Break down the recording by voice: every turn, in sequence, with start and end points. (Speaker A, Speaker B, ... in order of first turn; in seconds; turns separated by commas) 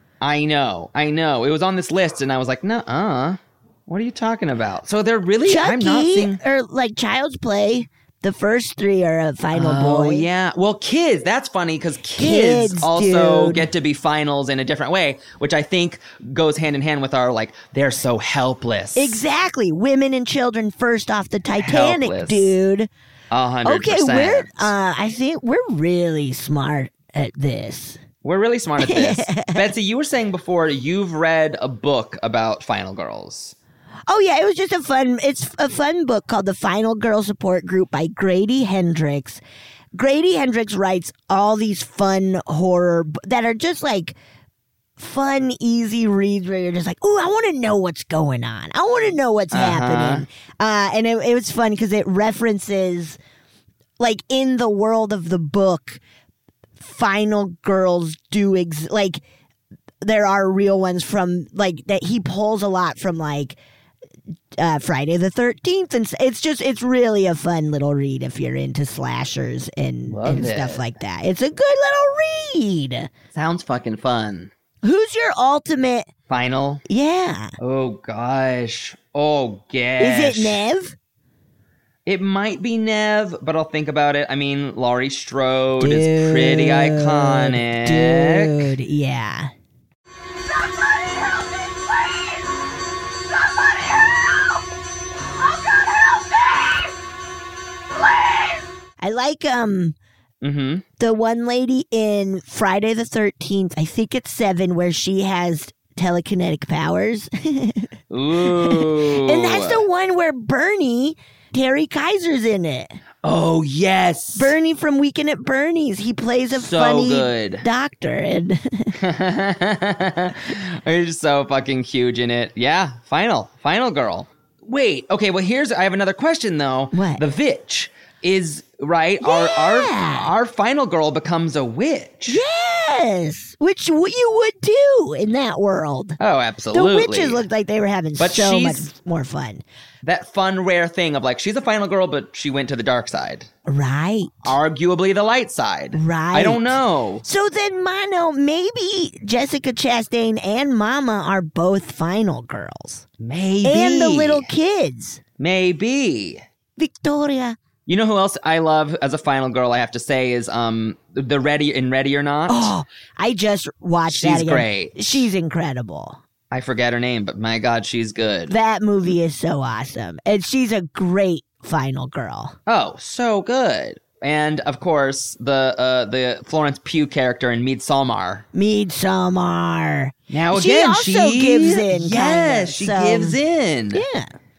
Speaker A: 0.2-6.4, Speaker B: 5.4-10.2, Speaker A: 9.5-19.2, Speaker B: 12.2-13.7, Speaker B: 18.9-22.9, Speaker A: 21.6-22.6, Speaker A: 23.3-24.7, Speaker B: 23.6-28.0, Speaker A: 28.2-33.5, Speaker B: 28.8-29.6, Speaker B: 34.1-39.4, Speaker B: 39.9-44.2, Speaker B: 45.0-53.2, Speaker A: 49.5-50.2, Speaker B: 54.0-56.0, Speaker B: 56.8-59.2, Speaker B: 60.0-63.6, Speaker B: 64.6-73.1, Speaker A: 70.1-70.9, Speaker A: 73.3-74.5, Speaker B: 74.8-76.1, Speaker A: 76.3-76.8, Speaker B: 76.9-77.5, Speaker A: 77.6-80.6, Speaker B: 80.0-80.9, Speaker A: 82.0-88.7, Speaker B: 85.8-89.5, Speaker B: 99.0-100.0, Speaker A: 100.4-100.8, Speaker B: 101.0-107.9, Speaker A: 108.1-109.8, Speaker B: 108.4-113.0, Speaker A: 113.2-114.5, Speaker B: 114.3-118.9, Speaker A: 116.5-117.6, Speaker A: 119.0-132.4, Speaker B: 126.9-127.2, Speaker B: 129.2-130.3, Speaker B: 132.3-136.2, Speaker A: 136.2-137.4, Speaker B: 136.7-139.6, Speaker A: 138.2-138.9, Speaker A: 140.0-143.5, Speaker B: 143.7-144.5, Speaker A: 144.4-147.2, Speaker B: 145.9-153.0, Speaker A: 153.2-154.5, Speaker B: 153.6-155.2, Speaker A: 155.4-156.4, Speaker B: 156.8-157.6, Speaker A: 157.8-162.7, Speaker B: 162.5-166.2, Speaker A: 164.1-165.2, Speaker A: 166.5-168.5, Speaker B: 168.5-172.5, Speaker A: 172.7-178.4, Speaker B: 178.5-183.4, Speaker A: 180.3-184.0, Speaker B: 183.9-184.3